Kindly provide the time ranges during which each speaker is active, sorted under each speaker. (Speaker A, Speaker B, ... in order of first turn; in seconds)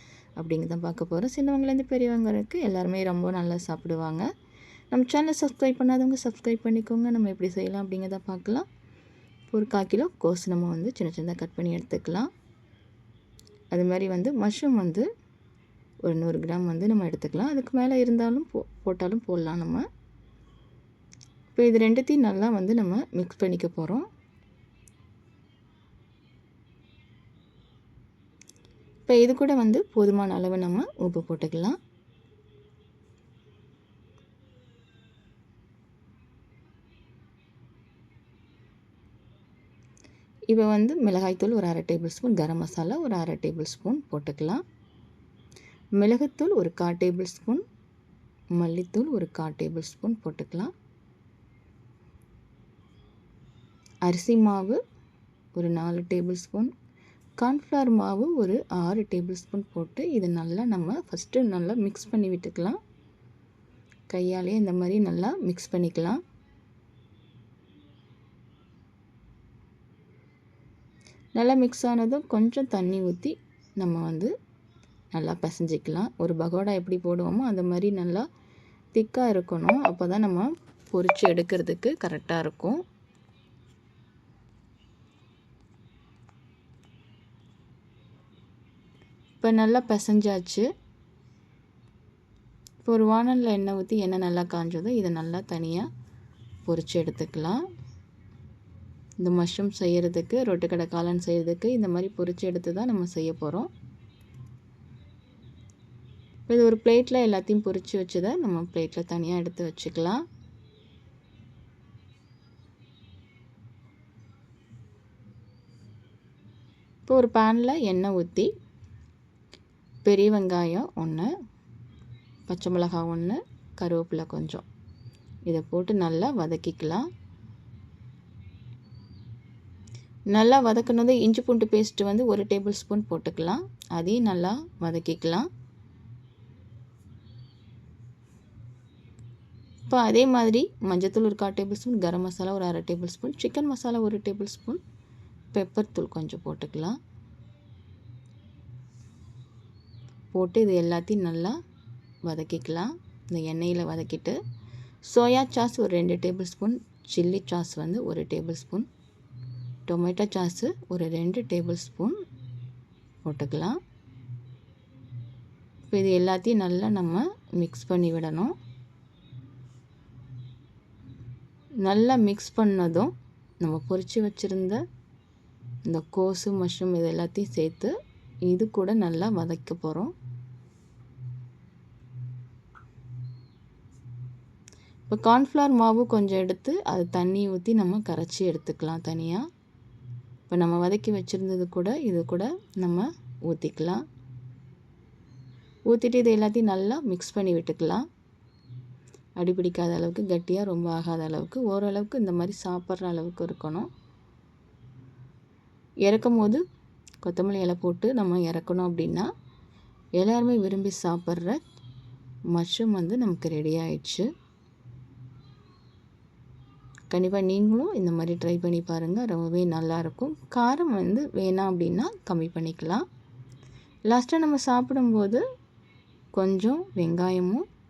Speaker A: 0.4-4.3, 4.9-8.7, 9.5-12.3, 13.7-15.1, 16.1-19.9, 21.6-24.1, 29.1-31.8, 40.5-44.6, 46.0-47.6, 48.5-50.7, 54.1-54.8, 55.5-56.7, 57.4-62.8, 64.1-66.2, 71.4-74.3, 75.1-78.3, 78.9-82.8, 89.4-90.7, 92.8-95.9, 96.7-97.6, 99.2-103.7, 106.5-110.2, 117.1-118.5, 120.0-121.3, 122.5-124.7, 125.5-127.1, 130.3-135.5, 139.9-144.8, 145.5-147.0, 150.3-151.6, 152.2-154.4, 155.1-158.9, 159.9-162.2, 163.2-163.8, 165.9-168.6, 171.8-174.8, 175.9-177.9, 178.5-180.1, 185.1-189.5, 190.5-194.0, 195.9-198.1, 199.4-203.9, 206.1-206.6, 207.2-209.3, 210.2-211.6, 212.5-214.3, 217.1-223.1, 224.1-225.4, 226.3-227.6